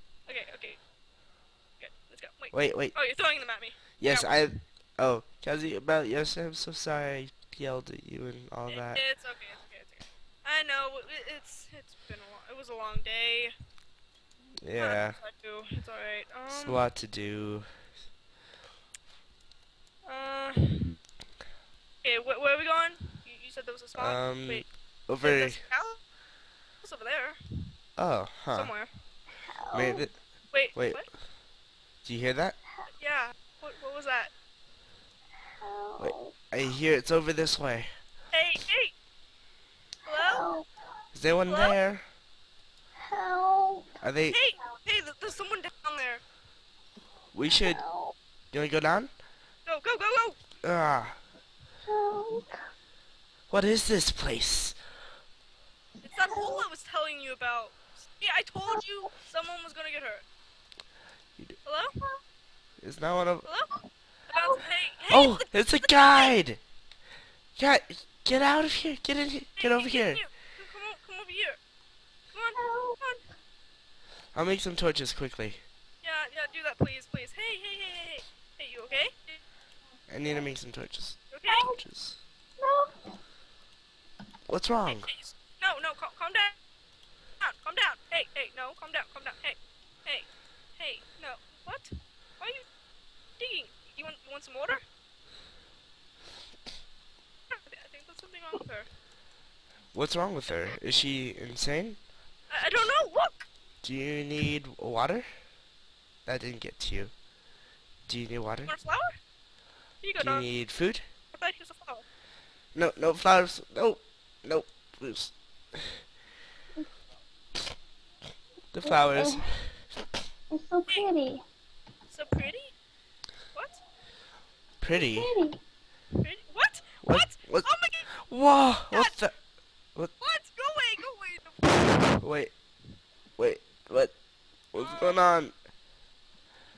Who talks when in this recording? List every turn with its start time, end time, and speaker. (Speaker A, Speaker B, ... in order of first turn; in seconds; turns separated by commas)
Speaker A: 0.3-0.8, Speaker A: 1.8-4.3, Speaker B: 2.5-3.0, Speaker B: 4.0-9.0, Speaker A: 8.7-13.5, Speaker B: 14.6-15.2, Speaker A: 14.8-16.8, Speaker B: 16.5-17.7, Speaker A: 20.0-20.9, Speaker A: 22.0-24.7, Speaker B: 23.9-25.6, Speaker A: 25.2-26.0, Speaker A: 26.8-27.4, Speaker B: 28.0-28.7, Speaker A: 28.5-28.9, Speaker C: 29.4-30.0, Speaker B: 29.7-30.1, Speaker A: 30.5-31.1, Speaker B: 30.7-31.0, Speaker B: 32.0-32.5, Speaker A: 33.0-34.3, Speaker C: 35.6-36.3, Speaker B: 36.0-37.9, Speaker A: 38.3-38.9, Speaker A: 40.0-40.5, Speaker C: 40.1-40.6, Speaker B: 41.1-42.0, Speaker A: 41.4-41.8, Speaker C: 43.1-44.0, Speaker B: 44.0-44.4, Speaker A: 44.3-46.2, Speaker B: 47.3-47.8, Speaker C: 47.5-48.1, Speaker B: 48.5-49.1, Speaker A: 49.6-50.4, Speaker B: 50.6-51.2, Speaker C: 51.9-52.6, Speaker B: 53.5-54.8, Speaker A: 56.0-60.2, Speaker C: 56.2-56.6, Speaker A: 61.6-61.9, Speaker B: 62.8-63.5, Speaker A: 63.4-63.7, Speaker A: 64.3-66.3, Speaker C: 64.3-64.6, Speaker B: 65.1-66.6, Speaker B: 67.6-70.2, Speaker A: 69.5-71.6, Speaker A: 72.3-73.2, Speaker C: 72.5-73.0, Speaker B: 74.3-75.6, Speaker A: 76.0-79.4, Speaker B: 80.1-82.2, Speaker A: 81.3-81.7, Speaker C: 81.5-81.8, Speaker C: 82.6-82.9, Speaker B: 84.5-85.1, Speaker A: 84.8-86.5, Speaker A: 87.4-92.7, Speaker A: 93.4-94.8, Speaker A: 97.5-98.9, Speaker B: 99.9-102.0, Speaker A: 102.5-103.5, Speaker B: 103.8-105.3, Speaker B: 106.2-107.1, Speaker B: 108.1-108.7, Speaker A: 108.7-109.2, Speaker A: 110.0-110.5, Speaker B: 110.2-111.0, Speaker A: 111.3-112.0, Speaker B: 112.7-116.0, Speaker B: 118.7-119.7, Speaker C: 118.8-119.4, Speaker C: 120.5-121.4, Speaker A: 122.1-122.7, Speaker A: 123.5-123.8, Speaker B: 124.8-125.3, Speaker C: 124.9-125.6, Speaker A: 126.2-128.1, Speaker B: 127.0-129.3, Speaker A: 128.9-129.2, Speaker A: 130.2-132.2, Speaker B: 132.2-132.5, Speaker B: 133.4-134.1, Speaker B: 134.7-135.5, Speaker A: 134.8-135.3